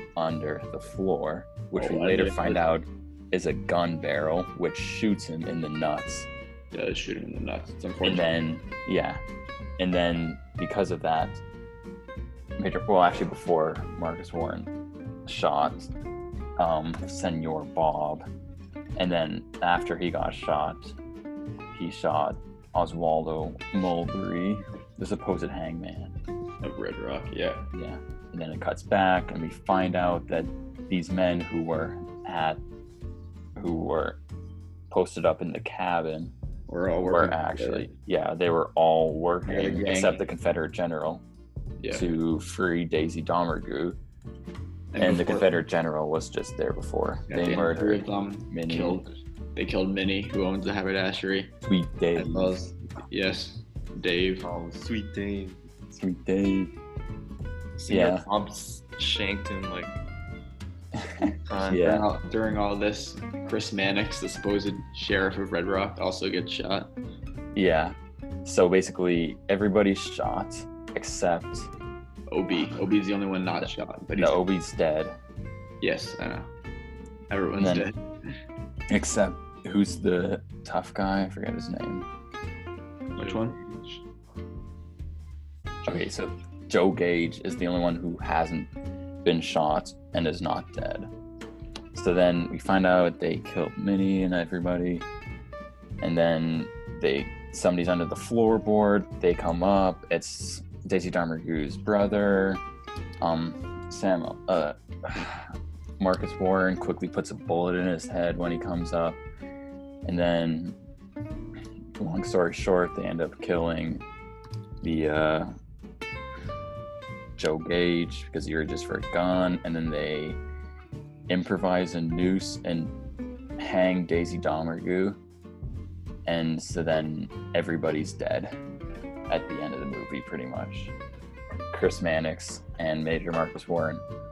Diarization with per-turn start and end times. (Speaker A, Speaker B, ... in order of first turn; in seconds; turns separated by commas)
Speaker A: 0.2-6.3, Speaker B: 1.8-2.7, Speaker B: 6.7-8.3, Speaker A: 8.0-9.2, Speaker A: 9.8-11.4, Speaker A: 12.6-14.7, Speaker A: 15.3-15.9, Speaker A: 16.6-18.2, Speaker A: 19.0-20.9, Speaker A: 21.7-26.1, Speaker B: 26.6-27.7, Speaker A: 27.7-32.6, Speaker A: 33.6-34.2, Speaker A: 34.9-36.3, Speaker B: 36.7-37.9, Speaker A: 37.0-41.2, Speaker B: 39.5-40.2, Speaker B: 41.8-42.1, Speaker A: 41.9-44.0, Speaker B: 44.9-45.6, Speaker A: 45.0-49.1, Speaker B: 47.3-51.5, Speaker A: 51.6-52.5, Speaker B: 52.1-54.5, Speaker C: 54.4-55.6, Speaker A: 55.9-56.7, Speaker C: 57.8-59.9, Speaker A: 57.9-58.3, Speaker A: 60.9-62.0, Speaker C: 61.2-61.8, Speaker B: 61.7-66.9, Speaker A: 67.5-71.7, Speaker B: 72.3-74.4, Speaker A: 73.6-75.2, Speaker B: 75.8-76.5, Speaker B: 77.3-78.0, Speaker A: 77.6-77.9, Speaker A: 78.9-82.1, Speaker C: 83.2-84.0, Speaker B: 83.2-83.6, Speaker A: 85.8-88.7, Speaker A: 89.2-91.1, Speaker A: 91.9-95.1, Speaker A: 96.0-102.6, Speaker A: 103.2-109.2, Speaker A: 110.0-110.8, Speaker A: 112.0-114.0, Speaker A: 114.8-115.5, Speaker A: 117.3-120.4, Speaker A: 121.3-122.9, Speaker A: 123.6-125.2, Speaker A: 126.2-128.6, Speaker A: 129.3-130.9, Speaker A: 131.7-134.0